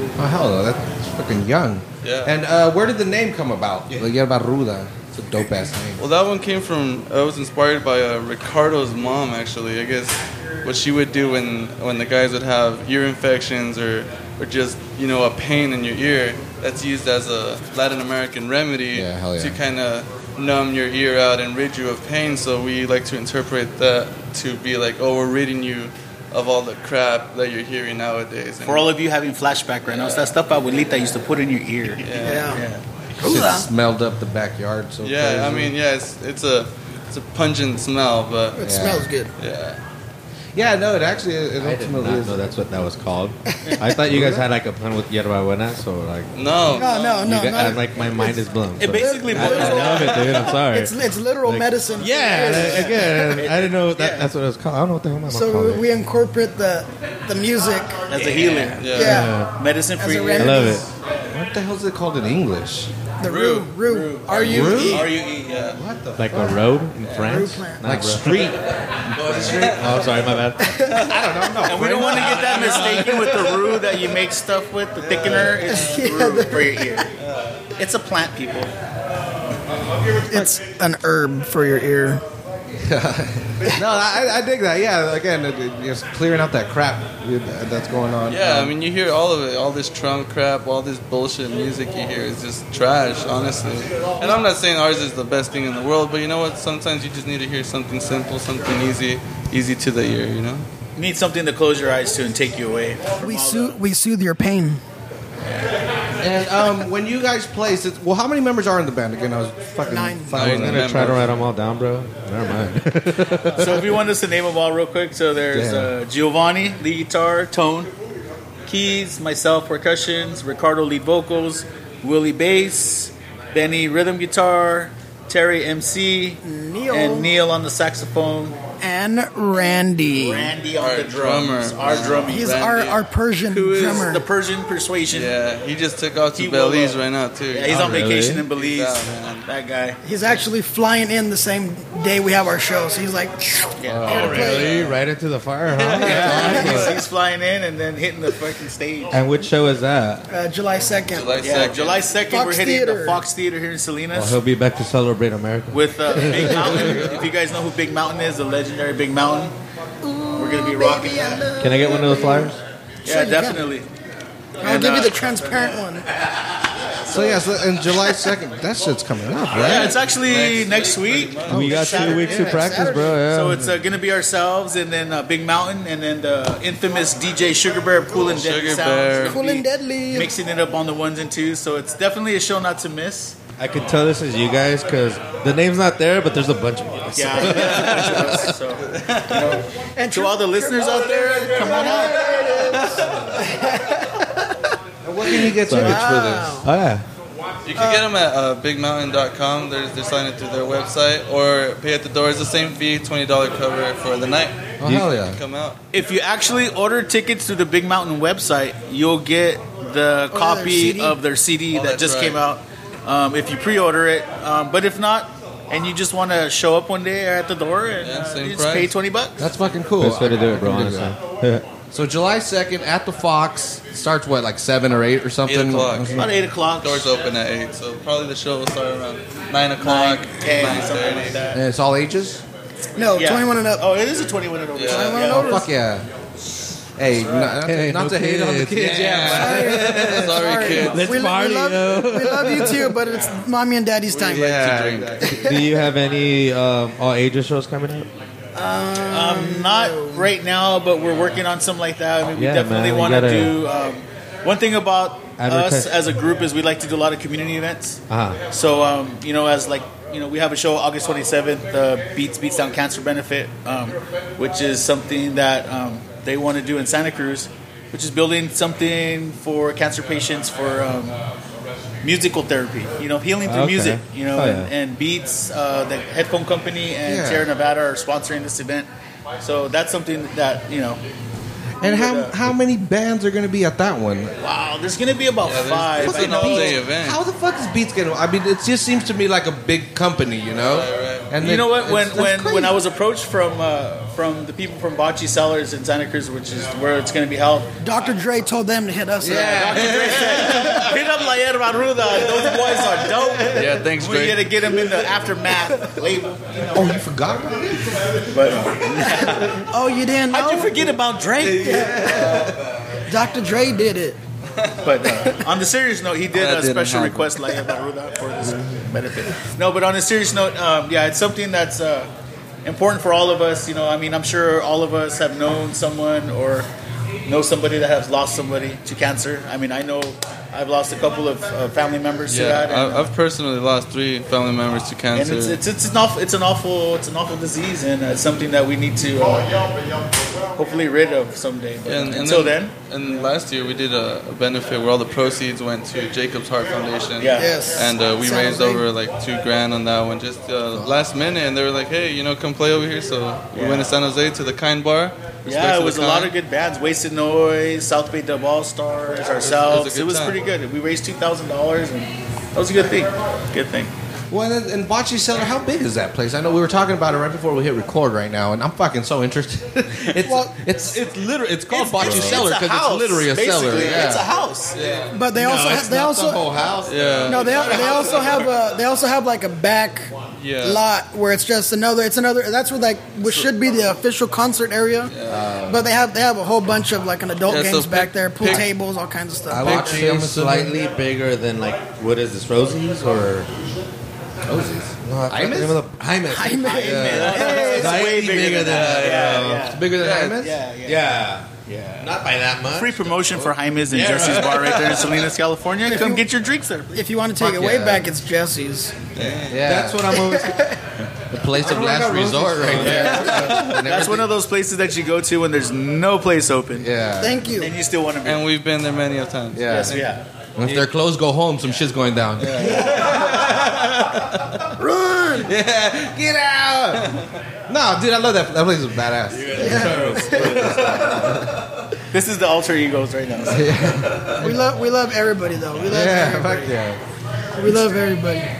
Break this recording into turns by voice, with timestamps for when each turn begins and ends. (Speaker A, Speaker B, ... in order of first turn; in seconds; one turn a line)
Speaker A: 0.2-6.0
Speaker B: 2.0-2.3
Speaker B: 6.0-28.9
Speaker A: 18.9-19.6
Speaker C: 28.7-32.8
Speaker B: 29.9-30.3
Speaker B: 32.0-32.6
Speaker D: 32.2-32.6
Speaker A: 33.2-35.7
Speaker D: 33.2-33.7
Speaker B: 35.0-38.6
Speaker D: 38.6-39.3
Speaker A: 38.6-39.1
Speaker B: 39.4-39.8
Speaker A: 40.5-42.4
Speaker E: 41.6-46.3
Speaker A: 44.0-44.5
Speaker B: 46.4-46.9
Speaker D: 46.7-53.4
Speaker C: 46.7-47.2
Speaker E: 47.2-55.9
Speaker C: 48.8-50.4
Speaker C: 52.5-54.3
Speaker D: 55.3-58.0
Speaker C: 58.1-60.9
Speaker E: 58.7-59.5
Speaker B: 58.8-59.3
Speaker D: 58.9-59.5
Speaker D: 60.0-60.9
Speaker E: 60.4-60.8
Speaker A: 61.3-62.9
Speaker D: 63.2-65.2
Speaker C: 63.2-65.8
Speaker A: 64.4-65.1
Speaker B: 64.7-65.8
Speaker A: 65.7-66.6
Speaker E: 66.2-68.5
Speaker B: 67.0-67.4
Speaker D: 67.2-67.9
Speaker A: 67.8-70.3
Speaker B: 69.2-70.1
Speaker E: 69.4-70.7
Speaker D: 70.6-71.2
Speaker A: 70.9-73.1
Speaker C: 71.6-77.1
Speaker B: 72.2-73.5
Speaker B: 75.0-75.8
Speaker D: 75.7-77.1
Speaker B: 77.2-77.5
Speaker C: 77.8-78.7
Speaker D: 80.3-82.2
Speaker A: 82.8-88.7
Speaker B: 88.3-100.7
Speaker C: 101.0-103.8
Speaker D: 103.2-104.8
Speaker A: 106.2-111.2
Speaker D: 109.8-110.3
Speaker B: 110.3-111.3
Speaker E: 110.4-113.9
Speaker C: 113.6-117.9
Speaker A: 115.5-115.9
Speaker C: 118.7-128.6
Speaker D: 126.4-127.3
Speaker D: 128.8-130.6
Speaker C: 129.6-132.5
Speaker B: 130.8-133.0
Speaker D: 132.2-134.3
Speaker C: 133.5-135.3
Speaker B: 135.1-139.5
Speaker C: 136.3-140.0
Speaker E: 137.7-138.4
Speaker D: 140.0-144.9
Speaker C: 143.8-144.9
Speaker A: 144.0-144.3
Speaker E: 144.0-146.9
Speaker B: 145.7-147.0
Speaker C: 146.0-149.2
Speaker D: 146.0-147.0
Speaker E: 149.1-150.3
Speaker D: 150.3-151.4
Speaker B: 151.1-152.1
Speaker C: 151.4-154.4
Speaker D: 152.2-153.2
Speaker E: 154.1-156.8
Speaker C: 155.7-159.6
Speaker B: 156.7-157.2
Speaker D: 160.0-163.7
Speaker C: 160.4-161.5
Speaker E: 161.6-162.6
Speaker C: 163.1-163.9
Speaker C: 164.6-165.8
Speaker D: 164.6-166.1
Speaker C: 167.0-167.5
Speaker A: 167.1-170.0
Speaker C: 169.5-183.4
Speaker B: 169.9-171.9
Speaker E: 171.5-173.7
Speaker A: 171.5-172.0
Speaker D: 171.9-173.2
Speaker B: 178.1-179.4
Speaker D: 179.3-180.3
Speaker E: 183.6-188.5
Speaker C: 187.2-192.6
Speaker B: 187.6-188.1
Speaker B: 188.9-189.5
Speaker D: 190.0-194.5
Speaker B: 192.8-193.1
Speaker A: 195.0-196.6
Speaker D: 195.3-196.7
Speaker E: 195.7-196.1
Speaker E: 196.6-197.1
Speaker B: 197.7-205.8
Speaker D: 197.8-198.1
Speaker A: 204.8-205.4
Speaker E: 204.8-205.1
Speaker C: 205.9-219.5
Speaker D: 210.3-211.2
Speaker B: 211.7-212.4
Speaker B: 218.0-218.9
Speaker A: 219.4-221.2
Speaker E: 220.0-221.7
Speaker A: 221.9-226.3
Speaker B: 225.4-231.4
Speaker C: 226.2-227.1
Speaker C: 229.8-231.6
Speaker A: 231.5-232.4
Speaker D: 232.9-233.9
Speaker C: 233.0-235.5
Speaker B: 234.8-235.2
Speaker D: 234.9-235.7
Speaker A: 235.3-236.1
Speaker A: 237.0-240.5
Speaker C: 237.1-237.6
Speaker E: 237.6-242.9
Speaker D: 239.2-244.4
Speaker B: 239.8-241.1
Speaker B: 244.1-245.3
Speaker A: 244.3-245.8
Speaker D: 245.2-245.7
Speaker E: 245.4-248.1
Speaker D: 248.6-250.3
Speaker C: 249.1-271.2
Speaker E: 252.3-253.6
Speaker E: 255.4-255.9
Speaker E: 258.1-258.4
Speaker C: 272.0-278.9
Speaker E: 273.4-274.7
Speaker A: 277.1-277.5
Speaker C: 279.4-281.0
Speaker C: 281.8-282.4
Speaker A: 281.8-284.3
Speaker C: 284.4-286.8
Speaker B: 285.4-287.2
Speaker A: 286.0-292.8
Speaker B: 290.6-291.3
Speaker C: 291.4-297.7
Speaker D: 297.8-299.7
Speaker A: 299.2-300.8
Speaker C: 299.3-306.8
Speaker B: 303.5-304.5
Speaker A: 306.7-308.3
Speaker C: 308.3-309.7
Speaker D: 309.7-310.9
Speaker C: 310.3-312.6
Speaker D: 311.6-312.4
Speaker A: 311.8-312.4
Speaker D: 313.1-314.2
Speaker B: 314.6-315.3
Speaker C: 314.8-322.1
Speaker B: 316.3-317.6
Speaker C: 322.6-326.7
Speaker C: 327.2-333.1
Speaker B: 332.3-335.6
Speaker C: 335.1-339.7
Speaker C: 340.5-343.3
Speaker B: 341.9-356.3
Speaker C: 347.2-347.6
Speaker D: 347.3-348.9
Speaker C: 353.6-353.9
Speaker C: 355.5-363.9
Speaker B: 359.4-360.4
Speaker A: 364.3-374.3
Speaker D: 370.2-370.7
Speaker C: 371.7-374.8
Speaker E: 372.0-372.4
Speaker B: 374.7-375.1
Speaker A: 375.0-378.1
Speaker D: 375.1-376.5
Speaker B: 376.9-378.4
Speaker D: 377.3-389.9
Speaker B: 380.4-380.8
Speaker B: 385.1-385.4
Speaker A: 385.2-385.9
Speaker B: 387.5-388.7
Speaker A: 389.5-390.8
Speaker E: 389.6-393.5
Speaker A: 394.4-395.8
Speaker E: 395.0-399.7
Speaker D: 396.3-397.9
Speaker C: 396.7-401.1
Speaker A: 397.2-399.0
Speaker B: 398.7-399.5
Speaker A: 399.6-400.6
Speaker E: 400.9-405.0
Speaker C: 401.7-402.1
Speaker C: 402.7-406.9
Speaker B: 404.5-405.1
Speaker D: 405.8-406.2
Speaker D: 406.9-409.1
Speaker A: 407.4-408.1
Speaker B: 409.1-409.6
Speaker A: 409.2-410.2
Speaker E: 409.6-410.7
Speaker D: 410.1-410.9
Speaker A: 411.3-414.3
Speaker E: 411.6-413.7
Speaker C: 412.8-416.9
Speaker B: 412.9-413.8
Speaker A: 416.8-417.4
Speaker D: 417.2-417.7
Speaker C: 417.6-418.5
Speaker B: 418.2-420.1
Speaker A: 419.5-420.0
Speaker C: 419.7-420.2
Speaker A: 420.6-424.3
Speaker C: 422.4-423.1
Speaker D: 422.6-423.1
Speaker D: 424.8-425.5
Speaker A: 425.4-431.5
Speaker E: 429.3-431.4
Speaker D: 429.5-430.6
Speaker C: 430.6-430.9
Speaker C: 432.1-433.9
Speaker A: 433.5-434.6
Speaker D: 434.3-436.7
Speaker A: 435.8-437.0
Speaker D: 437.6-438.5